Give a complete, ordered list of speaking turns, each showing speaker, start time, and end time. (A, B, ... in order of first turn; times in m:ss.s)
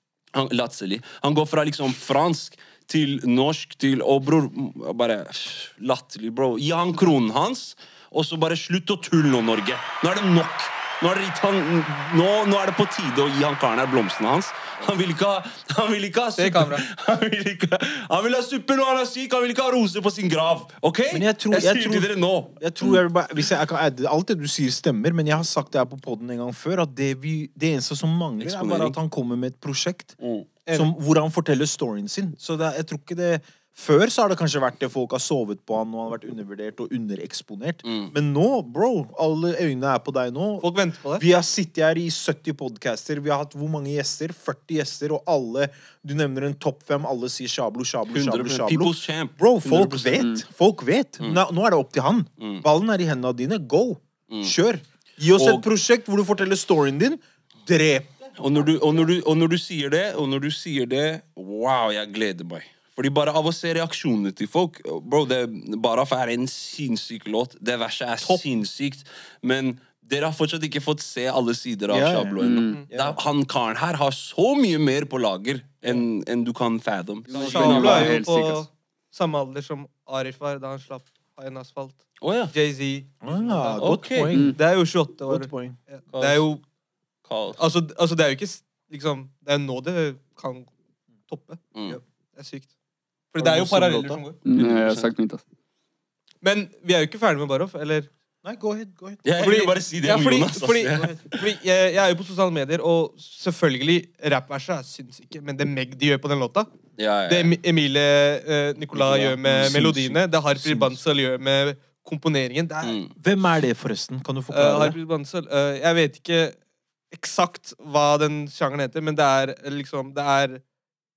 0:00.3-0:23.0 A
0:16.4-0:16.8 B
0:21.1-0:30.2 C
0:28.4-0:29.0 A
0:30.2-0:30.5 A
0:30.7-0:58.2 C
0:37.8-0:38.1 A
0:40.6-0:41.2 B
0:48.1-0:50.3 A
0:52.4-0:52.6 A
0:54.3-0:54.5 A
0:55.4-0:55.6 A
0:58.4-1:18.4 A
1:11.9-1:13.2 C
1:12.4-1:12.8 D
1:17.3-1:18.6 D
1:17.3-1:23.9 B
1:22.2-1:22.5 A
1:23.2-1:24.6 C
1:23.8-1:24.3 A
1:24.4-1:26.6 B
1:25.2-1:25.8 C
1:26.1-1:26.4 A
1:27.2-1:27.7 A
1:27.6-1:30.7 B
1:31.3-1:31.6 B
1:32.3-1:32.7 B
1:33.3-1:34.4 B
1:33.4-1:34.2 C
1:34.4-1:35.4 D
1:34.6-1:35.1 A
1:36.4-1:38.1 B
1:38.4-1:39.2 C
1:39.2-1:41.5 A
1:39.4-1:46.7 B
1:47.0-1:47.5 A
1:47.3-1:53.0 B
1:48.9-1:49.8 A
1:49.4-1:51.0 C
1:52.8-1:53.1 A
1:53.1-1:55.0 C
1:54.5-1:56.6 B
1:57.1-2:00.6 B